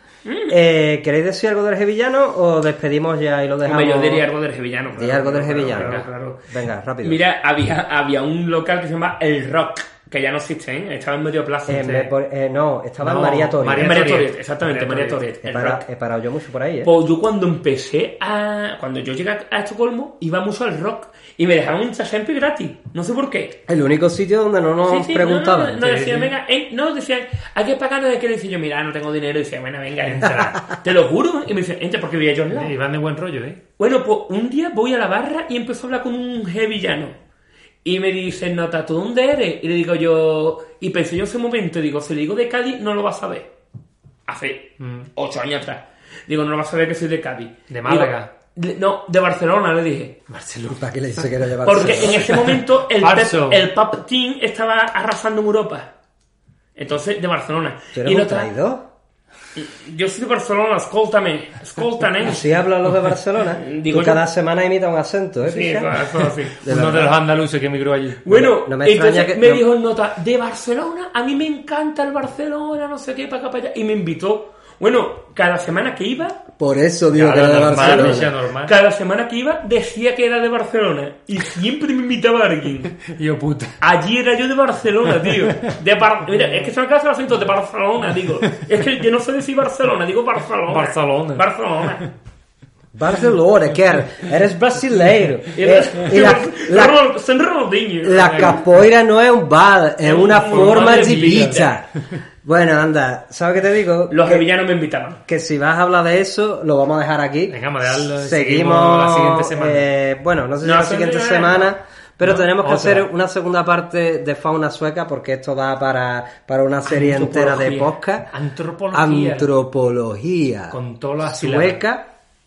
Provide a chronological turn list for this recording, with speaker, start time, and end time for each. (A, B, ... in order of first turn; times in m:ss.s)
0:00.3-0:00.5 A
0:00.5-0:04.2 B
0:03.6-0:06.4 A
0:05.0-0:07.2 B
0:05.7-0:06.1 C
0:07.0-0:11.9 A
0:11.7-0:14.1 B
0:11.8-0:12.1 C
0:13.0-0:15.2 C
0:13.8-0:15.8 A
0:15.4-0:16.9 B
0:16.8-0:23.6 A
0:23.7-0:26.0 B
0:24.8-0:32.7 A
0:25.8-0:26.3 C
0:30.0-0:30.7 C
0:32.5-0:33.6 C
0:33.8-0:37.2 A
0:37.8-0:43.5 A
0:44.3-0:50.2 A
0:44.8-0:45.1 C
0:47.7-0:48.3 C
0:50.3-0:50.8 C
0:50.7-0:52.3 B
0:51.6-0:55.9 A
0:51.9-0:53.6 C
0:56.8-0:58.5 A
0:58.0-0:58.9 B
0:59.6-1:02.4 A
1:02.2-1:07.2 B
1:03.6-1:04.2 A
1:05.5-1:06.6 A
1:06.6-1:08.2 C
1:08.2-1:16.4 A
1:08.3-1:09.6 B
1:16.6-1:18.3 B
1:17.1-1:18.7 C
1:17.6-1:23.0 A
1:23.1-1:23.8 C
1:23.8-1:32.1 A
1:30.7-1:31.5 C
1:32.9-1:37.0 B
1:35.5-1:38.6 A
1:38.0-1:44.4 B
1:38.2-1:38.6 C
1:40.0-1:41.7 A
1:40.4-1:41.7 C
1:44.1-1:45.2 A
1:45.3-1:58.3 B
1:47.5-1:49.9 C
1:50.6-1:51.7 A
1:52.2-1:53.0 C
1:56.9-1:57.9 A
1:58.3-1:59.5 C
1:58.9-2:02.1 B
2:00.7-2:01.8 C